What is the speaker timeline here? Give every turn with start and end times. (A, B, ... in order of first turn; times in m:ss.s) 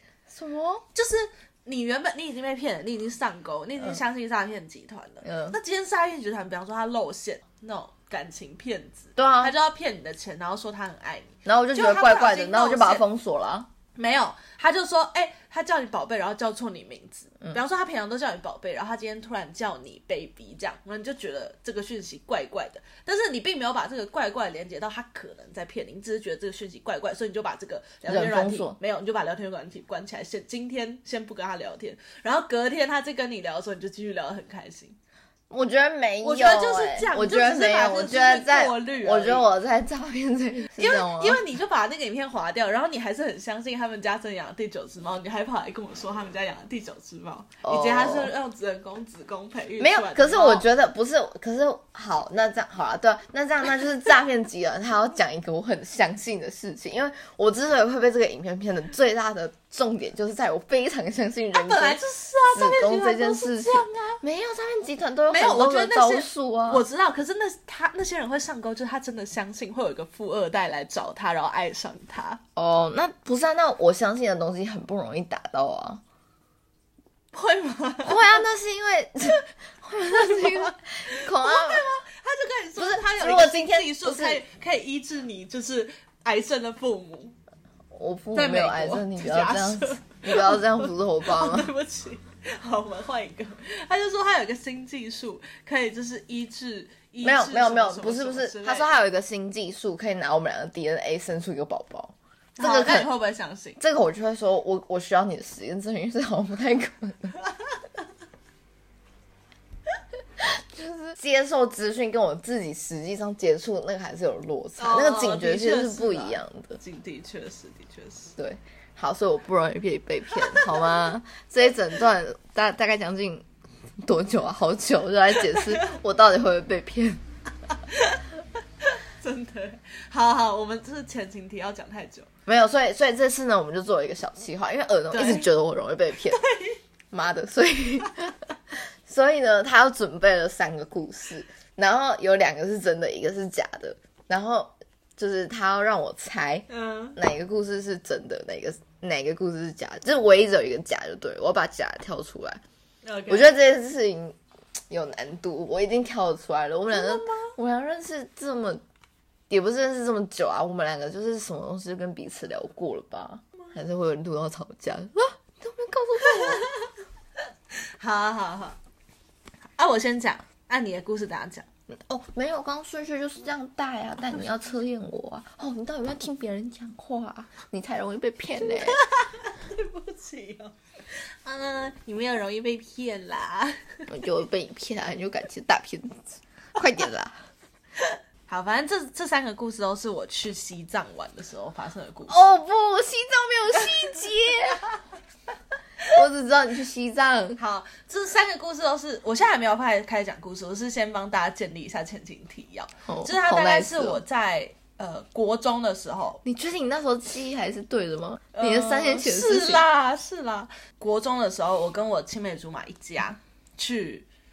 0:00.3-0:00.8 A
0:01.0-0:13.0 B
0:05.2-0:05.6 A
0:09.2-0:09.5 A
0:11.4-0:13.7 A
0:14.0-0:35.0 B
0:28.1-0:28.8 A
0:35.5-0:41.4 A
0:36.2-0:39.5 B
0:40.8-0:50.7 B
0:47.6-0:48.3 A
0:49.8-1:06.8 A
1:01.5-1:04.2 B
1:05.3-1:12.4 B
1:12.6-1:16.0 A
1:17.3-1:18.4 B
1:18.1-1:21.8 A
1:20.1-1:27.4 B
1:22.8-1:24.4 A
1:27.9-1:31.7 A
1:28.3-1:38.9 B
1:37.2-1:43.1 A
1:42.6-1:43.8 B
1:43.8-1:47.4 A
1:50.4-1:56.8 A
1:54.8-1:58.4 B
1:58.4-2:03.4 A
2:00.4-2:01.0 B
2:04.0-2:07.2 A
2:07.8-2:08.2 B
2:08.8-2:12.3 B
2:12.5-2:16.5 A
2:15.1-2:15.5 B
2:16.3-2:16.8 B
2:17.1-2:32.6 A
2:26.7-2:27.2 B
2:33.0-2:33.5 B
2:33.3-2:34.4 A
2:34.9-2:38.8 A
2:36.9-2:37.5 B
2:39.5-2:46.7 A
2:46.4-2:46.8 B
2:47.7-2:48.8 B
2:49.8-2:51.7 B
2:51.9-2:59.0 A
2:58.6-3:04.1 B
3:04.1-3:07.4 A
3:08.0-3:12.4 B
3:12.3-3:14.8 A
3:13.9-3:14.3 B
3:16.1-3:17.6 A
3:17.6-3:26.4 B
3:23.1-3:24.2 A
3:26.4-3:29.8 A
3:28.5-3:34.3 B